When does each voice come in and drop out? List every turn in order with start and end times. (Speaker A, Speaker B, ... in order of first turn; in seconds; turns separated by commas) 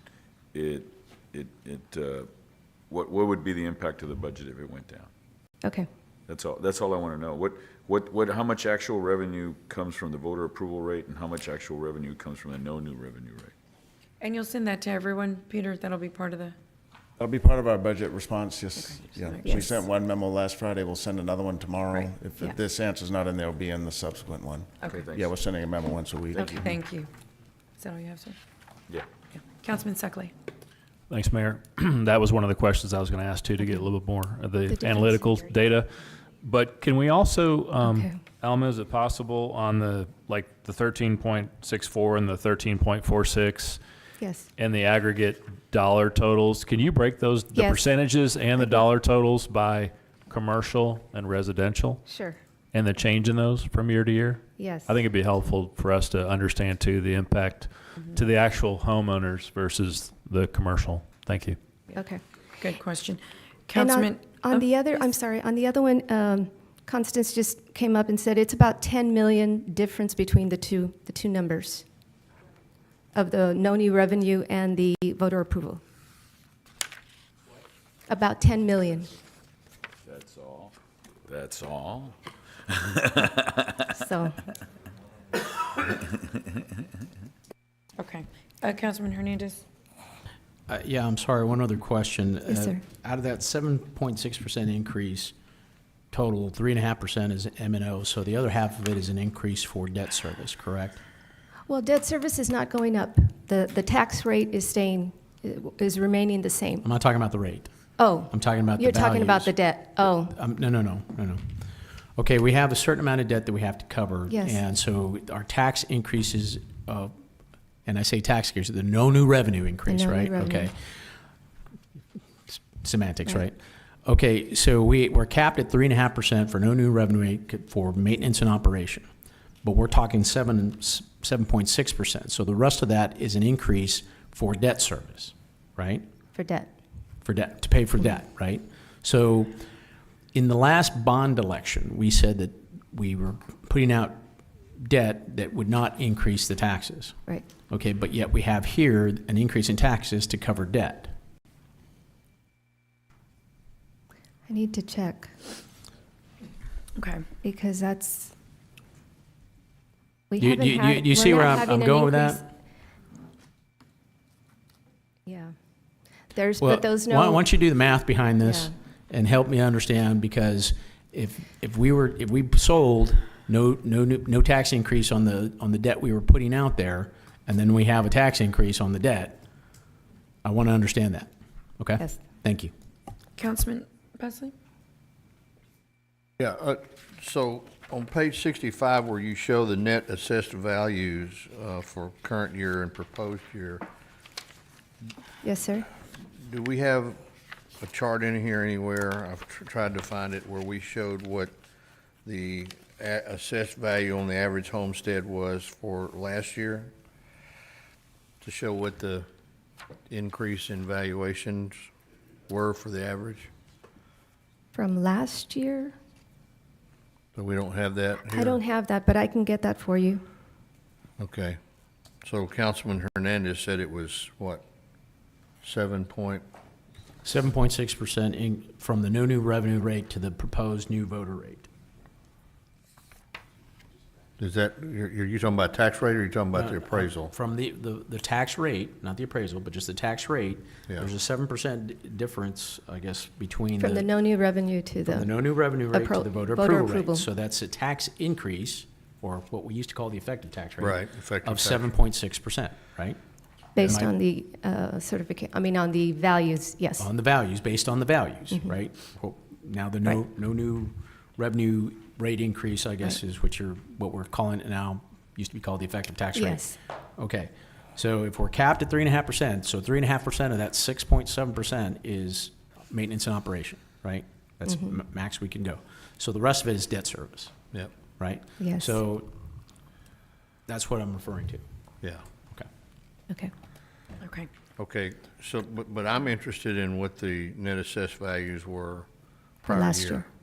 Speaker A: 0.5-2.3, Speaker A: 2.9-5.1, Speaker A: 6.3-13.5, Speaker B: 14.2-16.6, Speaker C: 17.2-26.7, Speaker B: 18.8-19.8, Speaker A: 24.8-25.4, Speaker B: 26.3-27.1, Speaker B: 27.8-28.4, Speaker B: 29.4-30.3, Speaker D: 31.1-43.8, Speaker E: 34.7-35.5, Speaker E: 37.8-38.2, Speaker E: 44.2-44.5, Speaker D: 44.6-52.0, Speaker E: 47.5-47.8, Speaker E: 48.6-48.8, Speaker E: 52.1-52.4, Speaker D: 52.7-61.6, Speaker E: 54.6-55.0, Speaker E: 61.9-62.2, Speaker B: 62.6-64.7, Speaker E: 63.7-71.8, Speaker E: 73.1-75.8, Speaker E: 78.1-79.1, Speaker A: 80.0-80.7, Speaker A: 81.3-82.1, Speaker A: 82.7-83.7, Speaker E: 83.9-84.4, Speaker B: 88.0-89.6, Speaker F: 90.7-95.3, Speaker E: 92.5-92.8, Speaker F: 96.1-101.0, Speaker E: 101.7-106.9, Speaker F: 106.8-107.7, Speaker E: 108.0-110.3, Speaker F: 108.3-109.6, Speaker F: 110.3-117.1, Speaker E: 114.3-114.6, Speaker F: 117.8-120.7, Speaker E: 119.9-120.7, Speaker F: 122.5-129.1, Speaker F: 129.6-136.0, Speaker E: 136.3-136.7, Speaker F: 137.2-139.6, Speaker F: 140.3-144.2, Speaker F: 144.8-147.2, Speaker F: 147.7-151.1, Speaker E: 154.5-155.3, Speaker B: 157.0-157.2, Speaker E: 157.4-158.3, Speaker E: 160.3-162.4, Speaker F: 160.4-162.4, Speaker E: 165.2-165.5, Speaker E: 166.3-167.4, Speaker F: 166.6-179.4, Speaker E: 168.4-168.7, Speaker F: 180.4-182.7, Speaker B: 183.4-184.5, Speaker G: 186.4-193.8, Speaker E: 195.4-195.9, Speaker G: 196.4-197.2, Speaker G: 197.8-201.5, Speaker G: 202.2-206.9, Speaker G: 208.4-209.3, Speaker G: 210.1-211.9, Speaker G: 212.5-213.5, Speaker E: 214.7-215.9, Speaker G: 217.3-218.6, Speaker E: 218.2-220.2, Speaker G: 221.2-221.6, Speaker G: 222.2-224.6, Speaker G: 225.6-226.4, Speaker F: 227.2-231.7, Speaker G: 234.4-237.3, Speaker F: 236.5-244.1, Speaker E: 243.8-247.3, Speaker F: 245.1-253.2, Speaker G: 250.8-251.9, Speaker E: 253.7-257.1, Speaker F: 253.8-254.1, Speaker F: 257.0-277.5, Speaker E: 266.3-266.7, Speaker F: 278.2-279.3, Speaker E: 278.6-279.0, Speaker F: 280.7-281.6, Speaker B: 284.2-284.5, Speaker G: 284.8-289.1, Speaker G: 289.6-290.2, Speaker E: 289.7-290.2